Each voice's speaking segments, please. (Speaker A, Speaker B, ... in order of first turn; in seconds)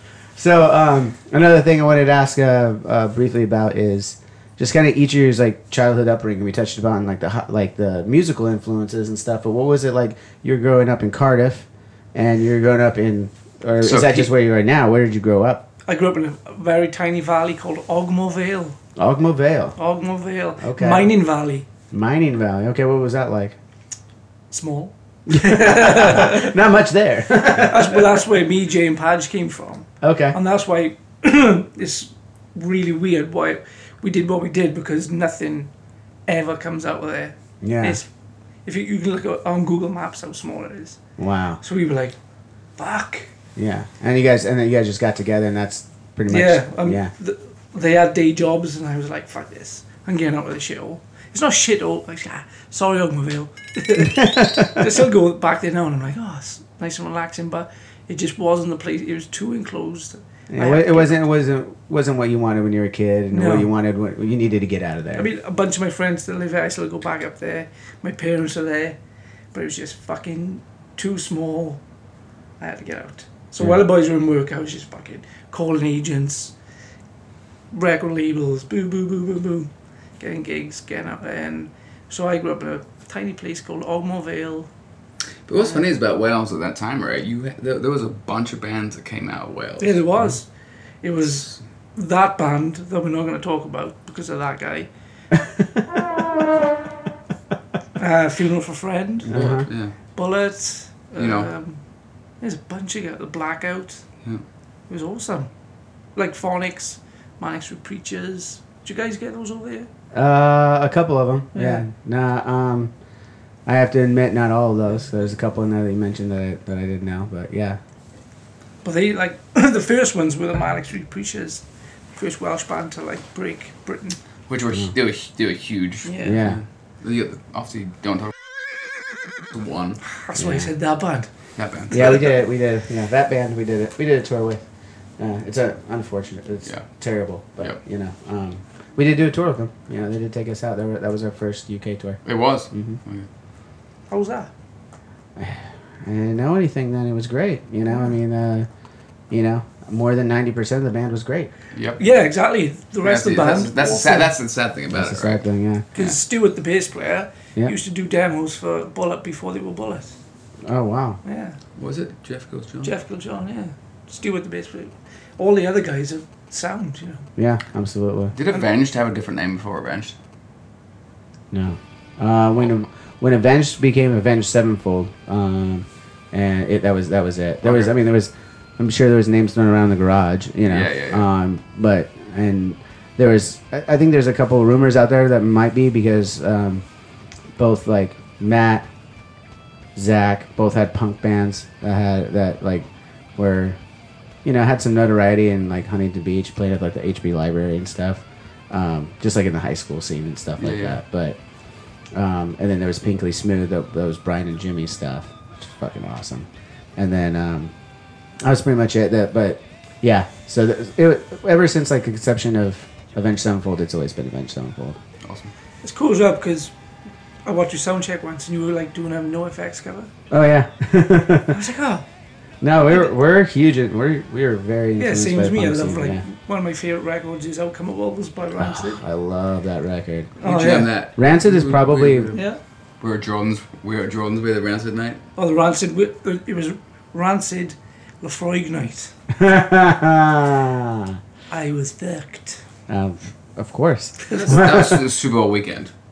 Speaker A: 0.4-15.6, 19.0-19.8, 20.6-21.1, 21.9-23.6, 25.3-28.2, 30.0-30.4, 37.6-38.0, 41.2-41.6, 43.6-47.1, 54.1-54.8, 60.5-65.3, 99.3-99.7, 110.1-112.9, 113.7-117.8, 126.2-126.6, 130.3-130.7, 131.9-134.6, 135.2-143.0, 145.4-148.7, 149.3-151.5, 154.9-155.9, 160.6-161.2, 167.4-168.3, 171.5-186.8, 187.6-188.9, 189.9-193.8, 194.4-201.4, 202.1-207.7, 208.4-215.0, 220.3-221.6, 222.6-226.2, 228.6-230.4, 231.2-232.4, 239.3-241.2, 242.9-245.0
Speaker B: 13.8-14.3, 85.5-90.0, 99.3-100.0, 101.2-101.5, 124.5-128.3, 129.5-130.0, 131.6-132.2, 142.2-143.3, 151.7-152.0, 153.0-155.4, 161.8-162.9, 168.4-170.1, 177.6-177.9, 180.7-181.3, 200.6-201.0, 215.2-215.5, 230.4-232.4, 233.0-235.2, 244.4-245.9
Speaker C: 15.9-18.8, 19.8-21.7, 24.5-26.5, 27.6-35.7, 36.3-38.1, 38.6-41.0, 41.6-42.1, 42.8-43.3, 46.3-61.2, 63.3-63.7, 65.2-69.0, 69.5-71.8, 72.6-76.5, 77.7-84.7, 89.8-90.5, 91.0-94.9, 98.0-99.3, 100.1-101.8, 102.4-104.0, 104.9-105.5, 106.1-109.9, 111.5-111.8, 118.8-121.6, 122.1-124.2, 126.0-126.4, 130.1-131.3, 131.9-132.3, 144.1-144.5, 152.0-154.3, 155.9-160.1, 161.2-161.6, 162.8-167.3, 215.8-216.7, 217.4-220.1, 221.5-222.1, 225.0-229.0, 230.4-230.9, 235.4-239.1, 241.5-242.6, 244.3-244.7